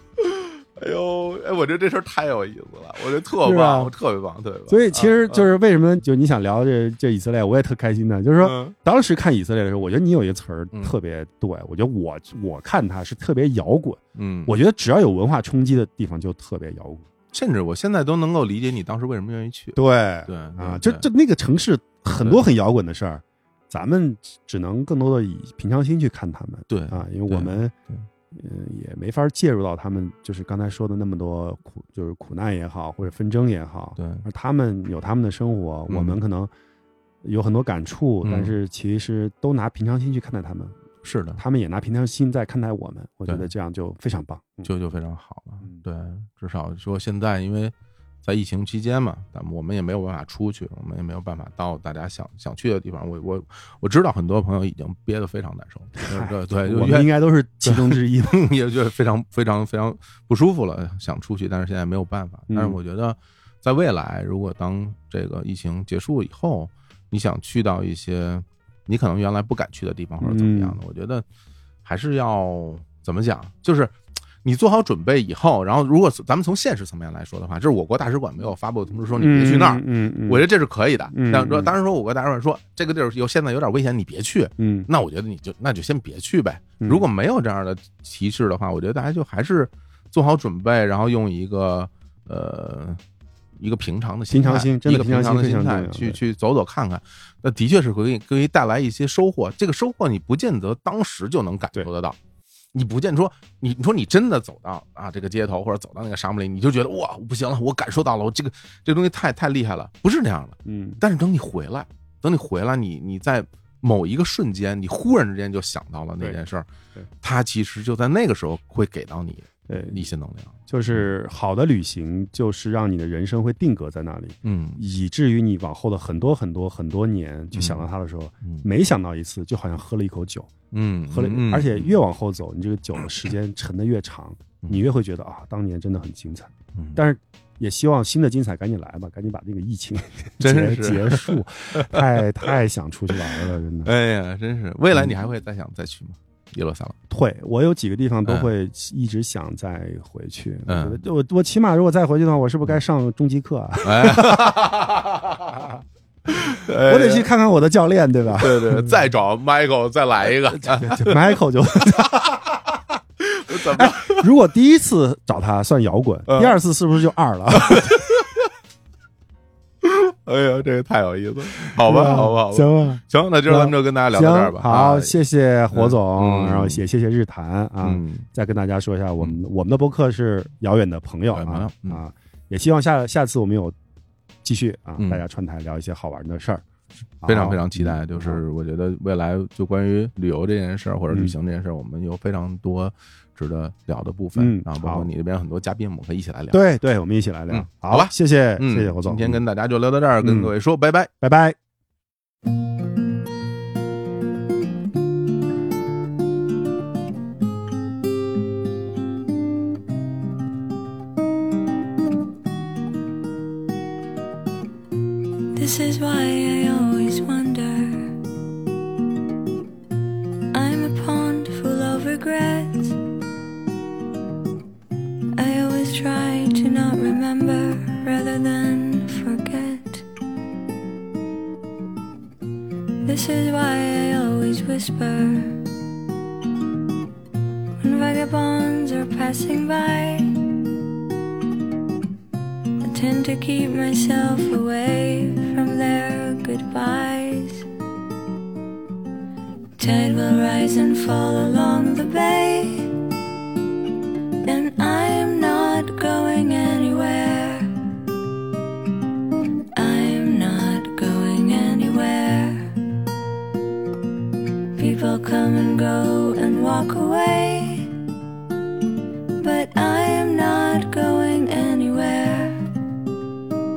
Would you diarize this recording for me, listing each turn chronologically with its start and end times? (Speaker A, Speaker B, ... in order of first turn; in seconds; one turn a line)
Speaker A: 0.3-5.5
Speaker B: 3.4-3.9
Speaker B: 4.7-17.1
Speaker A: 8.4-8.7
Speaker A: 14.1-14.5
Speaker A: 17.3-21.1
Speaker B: 19.8-27.7
Speaker A: 22.2-22.4
Speaker A: 26.7-28.1
Speaker B: 28.3-36.5
Speaker A: 34.0-34.2
Speaker A: 35.9-36.2
Speaker B: 37.2-40.8
Speaker A: 38.2-38.5
Speaker A: 41.0-41.4
Speaker B: 41.4-44.7
Speaker A: 44.6-57.1
Speaker B: 56.0-58.5
Speaker A: 57.6-71.2
Speaker B: 62.5-62.8
Speaker B: 70.2-70.8
Speaker A: 71.8-93.0
Speaker B: 79.2-80.5
Speaker B: 81.1-81.8
Speaker B: 84.6-84.9
Speaker B: 86.8-87.0
Speaker A: 93.6-102.2
Speaker B: 94.3-96.2
Speaker A: 102.7-116.7
Speaker B: 110.6-111.0
Speaker A: 117.2-121.1
Speaker B: 119.7-120.1
Speaker B: 120.7-130.5
Speaker A: 124.4-124.8
Speaker A: 127.5-127.8
Speaker A: 130.7-132.0
Speaker B: 131.1-143.9
Speaker A: 134.6-134.9
Speaker A: 136.7-137.0
Speaker A: 140.4-142.5
Speaker A: 143.8-147.0
Speaker B: 144.9-145.2
Speaker B: 147.1-154.7
Speaker A: 148.2-148.5
Speaker A: 150.7-151.0
Speaker A: 153.8-155.7
Speaker A: 156.3-157.3
Speaker B: 156.3-159.0
Speaker A: 158.4-161.4
Speaker B: 160.5-162.4
Speaker A: 162.1-162.4
Speaker A: 163.2-164.2
Speaker B: 163.5-168.0
Speaker A: 166.3-166.6
Speaker A: 167.5-168.4
Speaker A: 169.8-175.1
Speaker B: 171.8-183.7
Speaker A: 175.7-176.8
Speaker A: 177.8-178.3
Speaker A: 181.3-182.0
Speaker B: 184.4-186.6
Speaker A: 185.0-185.2
Speaker B: 187.2-188.4
Speaker A: 187.2-196.6
Speaker B: 194.3-195.1
Speaker B: 196.5-199.4
Speaker A: 197.5-201.1
Speaker B: 200.2-200.5
Speaker B: 201.2-201.6
Speaker C: 215.5-218.2
Speaker C: 220.5-223.0
Speaker C: 225.3-230.0
Speaker C: 233.0-235.7
Speaker C: 237.8-240.6
Speaker C: 242.8-247.7
Speaker C: 249.8-253.0
Speaker C: 254.4-257.7
Speaker C: 259.7-262.8
Speaker C: 264.7-267.9
Speaker C: 269.4-272.7